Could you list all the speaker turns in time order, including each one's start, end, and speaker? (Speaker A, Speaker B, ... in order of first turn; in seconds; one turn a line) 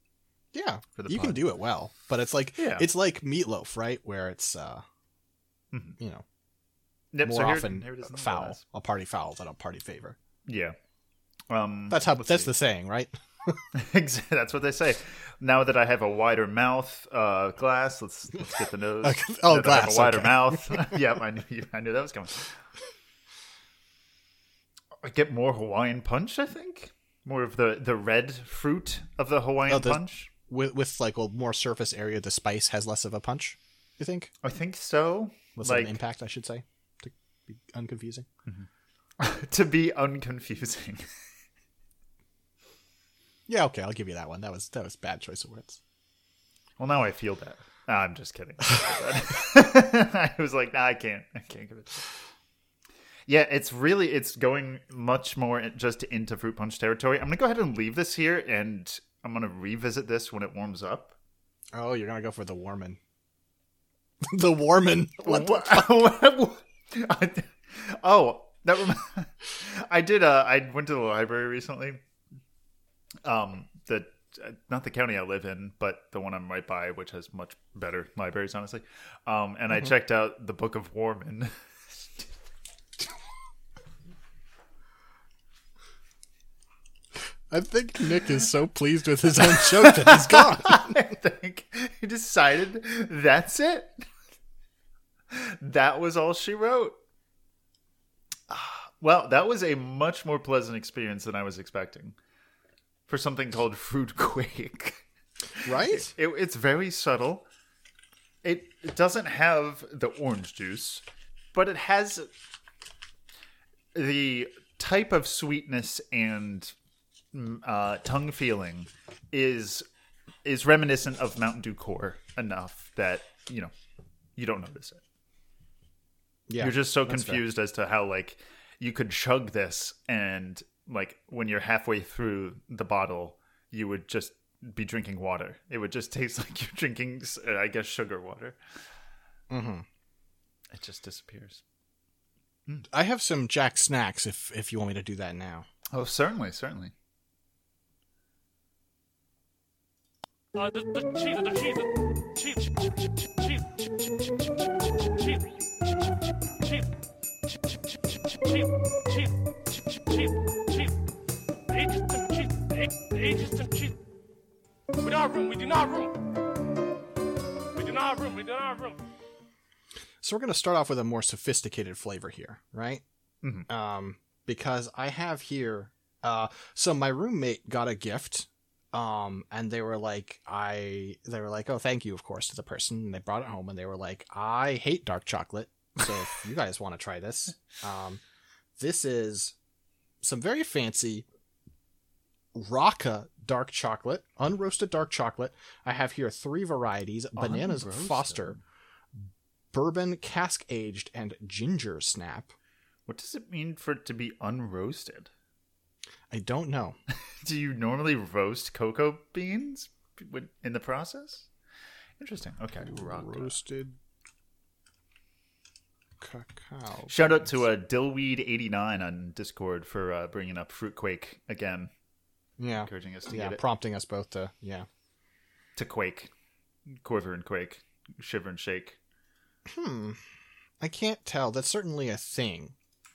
Speaker A: 0.5-4.8
Speaker B: 0.9-1.4
Speaker B: 2.6-2.9
Speaker B: 5.7-6.0
Speaker A: 6.0-6.2
Speaker B: 7.1-8.6
Speaker A: 7.2-10.2
Speaker B: 10.5-10.8
Speaker B: 11.5-12.5
Speaker A: 11.9-13.6
Speaker B: 13.7-22.5
Speaker A: 19.0-20.9
Speaker B: 25.0-30.3
Speaker A: 29.7-34.3
Speaker B: 34.4-36.0
Speaker A: 35.5-38.3
Speaker B: 39.2-41.1
Speaker A: 43.5-45.8
Speaker B: 46.8-52.0
Speaker B: 53.3-61.1
Speaker A: 61.7-63.0
Speaker A: 64.2-65.9
Speaker B: 65.2-72.0
Speaker B: 73.2-81.5
Speaker A: 87.5-90.9
Speaker B: 89.4-93.9
Speaker B: 95.3-97.0
Speaker B: 98.5-102.2
Speaker B: 103.1-107.5
Speaker A: 105.6-106.1
Speaker B: 108.4-111.0
Speaker B: 111.5-112.3
Speaker B: 113.9-116.7
Speaker B: 117.3-119.8
Speaker B: 120.4-123.7
Speaker B: 124.3-125.0
Speaker A: 126.5-127.4
Speaker B: 126.6-138.6
Speaker A: 139.5-139.8
Speaker B: 140.7-141.6
Speaker A: 142.9-145.7
Speaker B: 145.9-146.9
Speaker C: 150.5-156.1
Speaker C: 156.6-156.9
Speaker C: 158.1-160.9
Speaker C: 161.7-163.9
Speaker C: 165.0-166.1
Speaker C: 167.7-169.0
Speaker A: 170.2-173.0
Speaker A: 173.7-188.2
Speaker A: 188.8-189.5
Speaker A: 190.2-191.2
Speaker A: 192.5-198.6
Speaker B: 197.3-198.6
Speaker A: 199.7-202.5
Speaker B: 203.1-205.3
Speaker A: 206.3-207.0
Speaker B: 207.4-211.5
Speaker B: 212.2-213.6
Speaker A: 212.8-213.9
Speaker A: 216.2-217.5
Speaker B: 217.1-221.9
Speaker A: 222.6-224.9
Speaker B: 222.8-223.6
Speaker B: 225.8-226.3
Speaker B: 227.0-229.0
Speaker A: 229.7-230.2
Speaker A: 230.8-232.7